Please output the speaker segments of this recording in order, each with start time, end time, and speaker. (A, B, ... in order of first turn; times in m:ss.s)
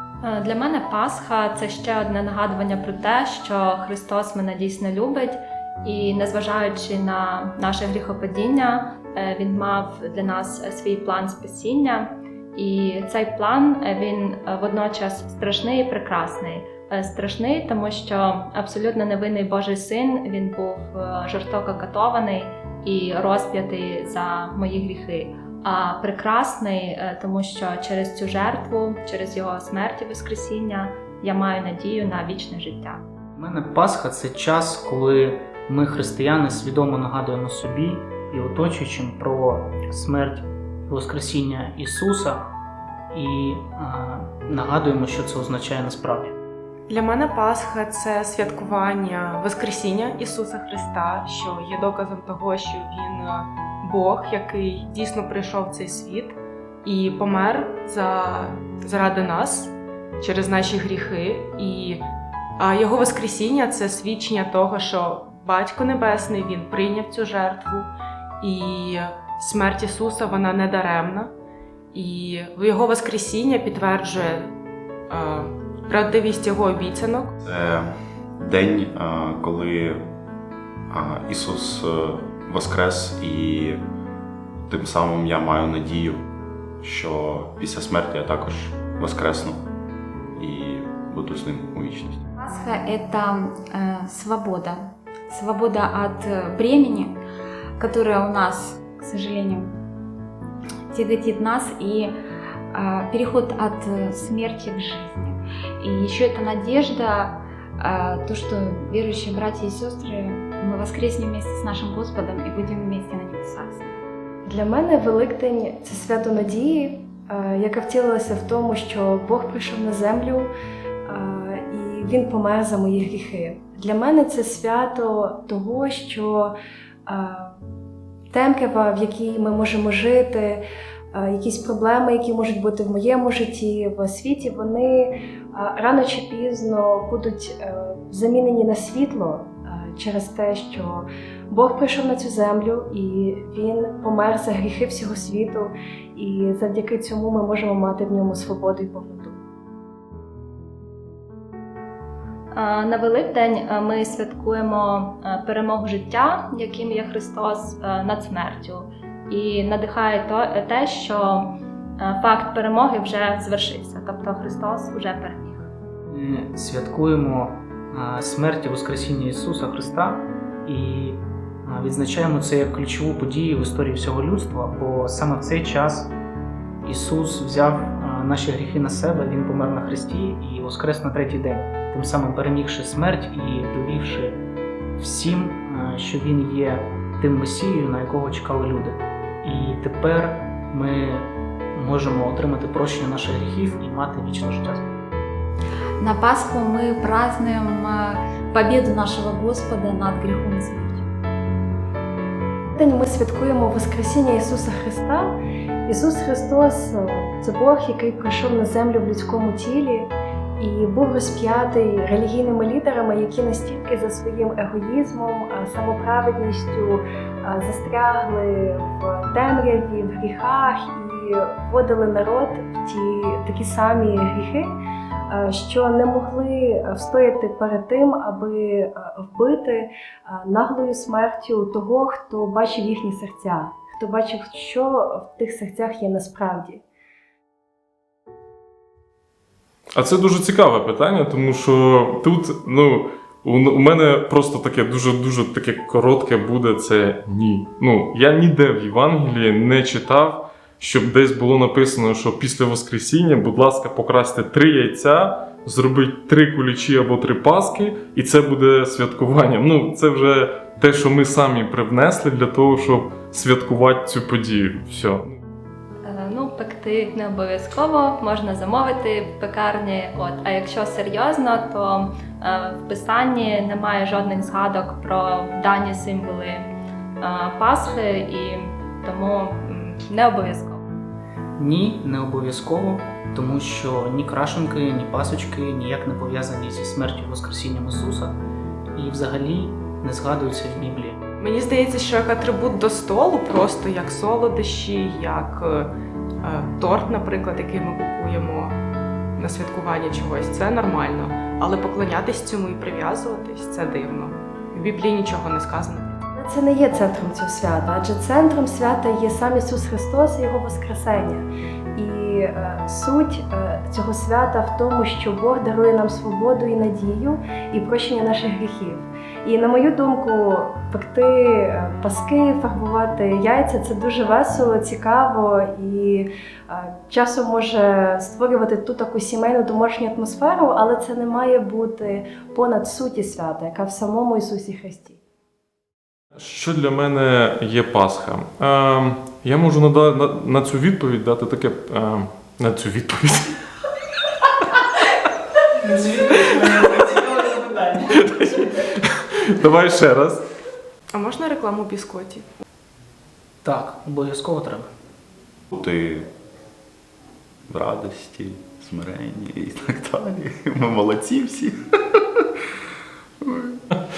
0:00.2-0:33.0 A
0:33.4-0:42.4 B
0:43.1-0:46.4 B
0:46.9-1:02.0 C
1:02.6-1:07.9 C
1:08.4-1:11.3 C
1:11.9-1:14.5 C
1:15.1-1:17.3 C
1:17.4-1:20.0 D
1:20.9-1:23.8 D
1:24.7-1:26.2 D
1:26.8-1:29.6 D
1:30.3-1:32.2 D
1:32.4-1:37.2 E
1:37.8-1:39.8 E
1:40.9-1:42.1 E
1:42.7-1:54.0 E
1:54.5-2:00.5 F
2:01.1-2:06.5 F
2:07.1-2:07.6 F
2:08.3-2:29.4 F
2:32.5-2:45.7 A
2:46.1-2:56.1 B
2:56.8-3:04.4 B
3:05.0-3:15.0 B
3:16.0-3:21.0 E
3:22.8-3:25.3 F
3:25.9-3:44.7 F
3:45.3-3:56.8 F
3:59.9-4:25.4 G
4:26.0-4:36.7 A
4:37.2-4:40.8 A
4:41.6-4:48.4 B
4:48.9-4:51.2 B
4:51.4-4:55.9 C
4:56.4-4:58.8 C
4:59.4-5:06.2 C
5:06.3-5:35.2 F
5:36.4-5:43.6 G
5:46.3-5:47.2 G
5:47.6-5:47.9 B
5:48.0-5:50.4 G
5:51.1-5:52.4 C
5:53.6-5:54.9 B
5:55.7-5:56.3 D
5:57.7-6:01.8 D
6:03.4-6:03.8 D